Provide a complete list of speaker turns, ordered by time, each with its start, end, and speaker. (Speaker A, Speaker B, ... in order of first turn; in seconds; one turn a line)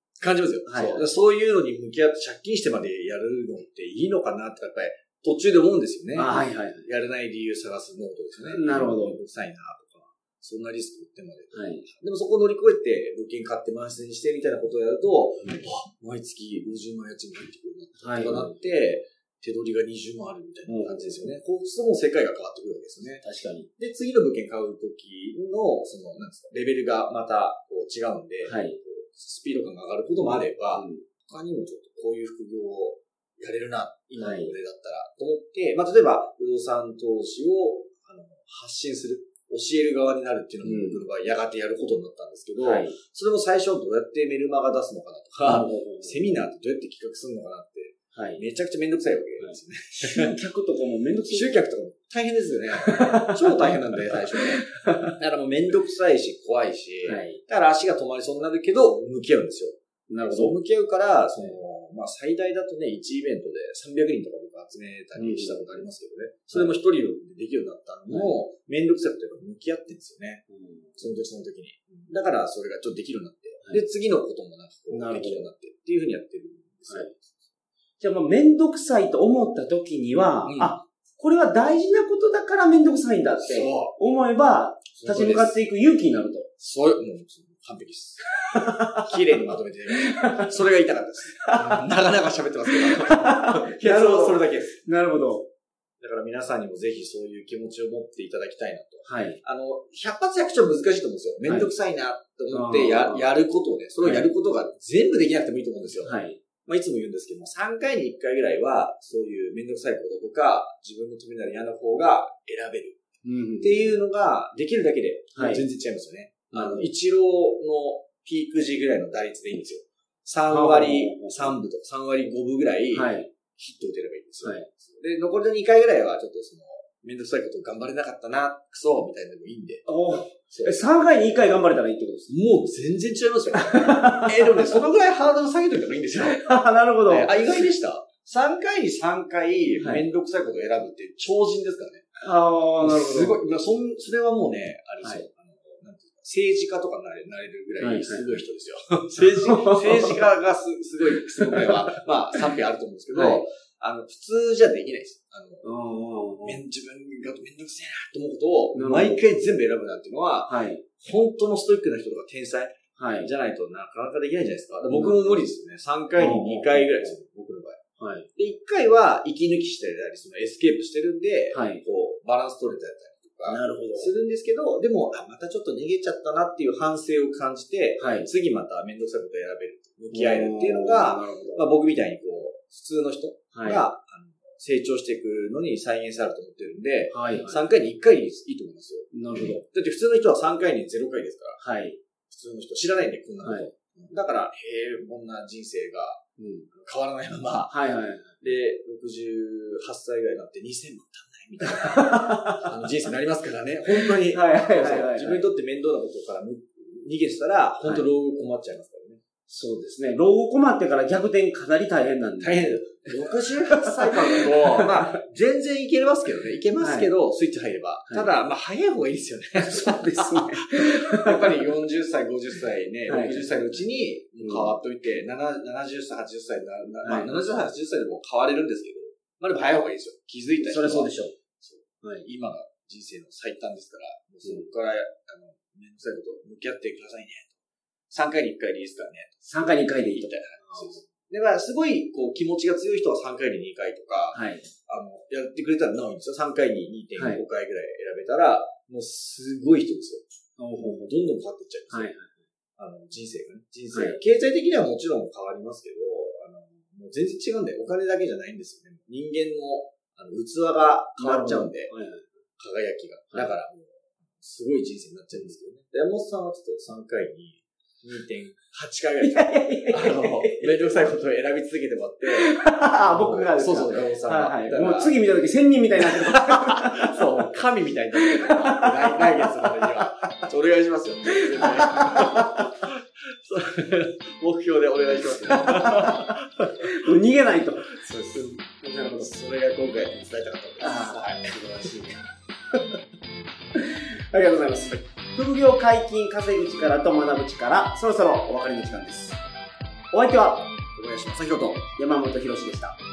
Speaker A: 0.2-23.2
Speaker B: 0.7-1.1
Speaker B: 6.1-6.9
Speaker B: 8.4-9.2
Speaker B: 11.5-11.8
Speaker B: 18.0-18.6
Speaker B: 20.7-21.4
Speaker B: 23.2-23.7
Speaker A: 23.8-50.4
Speaker B: 28.4-28.8
Speaker B: 30.1-31.0
Speaker B: 34.2-34.5
Speaker B: 40.6-41.0
Speaker B: 42.6-43.0
Speaker B: 45.4-46.5
Speaker B: 48.1-48.4
Speaker B: 49.4-51.5
Speaker A: 51.3-59.8
Speaker B: 52.7-53.8
Speaker B: 54.7-55.1
Speaker B: 57.0-57.4
Speaker B: 60.1-60.6
Speaker A: 60.3-70.4
Speaker B: 65.2-65.7
Speaker B: 68.1-68.3
Speaker B: 70.5-71.1
Speaker A: 71.0-77.3
Speaker B: 74.9-75.5
Speaker B: 76.9-77.1
Speaker B: 78.0-86.5
Speaker A: 80.4-80.8
Speaker A: 83.4-83.9
Speaker A: 84.9-85.6
Speaker A: 86.6-88.4
Speaker B: 88.5-89.1
Speaker A: 88.9-94.8
Speaker B: 90.0-90.5
Speaker B: 91.5-91.8
Speaker B: 92.7-95.5
Speaker A: 96.0-113.0
Speaker B: 99.0-99.4
Speaker B: 101.4-101.7
Speaker B: 102.5-103.3
Speaker B: 104.0-104.3
Speaker B: 106.0-106.4
Speaker B: 113.2-114.0
Speaker A: 113.6-130.8
Speaker B: 115.3-115.7
Speaker B: 116.5-116.9
Speaker B: 120.5-121.6
Speaker B: 122.9-123.3
Speaker B: 124.4-124.7
Speaker B: 129.8-132.3
Speaker A: 132.3-142.1
Speaker B: 133.5-134.6
Speaker B: 136.2-137.4
Speaker B: 139.8-140.1
Speaker B: 142.2-143.4
Speaker A: 142.8-155.7
Speaker B: 145.0-145.2
Speaker B: 147.8-148.4
Speaker B: 149.4-150.2
Speaker B: 151.3-151.7
Speaker B: 153.1-153.4
Speaker B: 155.6-156.6
Speaker A: 156.4-167.8
Speaker B: 158.7-159.2
Speaker B: 160.4-160.8
Speaker B: 162.9-163.3
Speaker B: 164.9-165.5
Speaker B: 166.2-167.2
Speaker B: 168.0-168.3
Speaker A: 168.3-191.6
Speaker B: 171.5-171.8
Speaker B: 173.5-174.1
Speaker B: 178.0-178.3
Speaker B: 180.1-181.7
Speaker B: 183.5-183.8
Speaker B: 187.1-187.6
Speaker B: 189.1-189.6
Speaker B: 191.6-192.0
Speaker A: 192.3-196.2
Speaker B: 193.4-193.7
Speaker B: 196.4-196.7
Speaker A: 196.7-197.8
Speaker B: 197.7-198.4
Speaker A: 198.4-209.2
Speaker B: 201.6-202.7
Speaker B: 204.1-205.5
Speaker B: 207.8-208.1
Speaker B: 209.5-215.2
Speaker A: 212.4-237.5
Speaker B: 216.8-217.1
Speaker B: 219.6-221.7
Speaker B: 223.1-223.8
Speaker B: 224.4-224.8
Speaker B: 227.0-227.4
Speaker B: 230.6-231.3
Speaker B: 232.0-232.3
Speaker A: 238.1-239.4
Speaker B: 239.4-241.1
Speaker A: 240.0-252.1
Speaker B: 244.3-244.7
Speaker B: 247.1-247.4
Speaker B: 250.6-251.2
Speaker B: 251.9-252.4
Speaker A: 252.8-261.9
Speaker B: 253.9-254.2
Speaker B: 261.2-262.4
Speaker A: 262.6-272.5
Speaker B: 269.2-270.9
Speaker B: 272.4-277.2
Speaker A: 273.1-275.2
Speaker A: 276.1-286.7
Speaker B: 278.1-280.1
Speaker B: 281.4-282.7
Speaker B: 285.4-289.3
Speaker A: 288.2-292.1
Speaker B: 290.8-292.2
Speaker B: 293.8-299.4
Speaker B: 300.1-300.7
Speaker A: 300.9-301.9
Speaker B: 302.0-303.0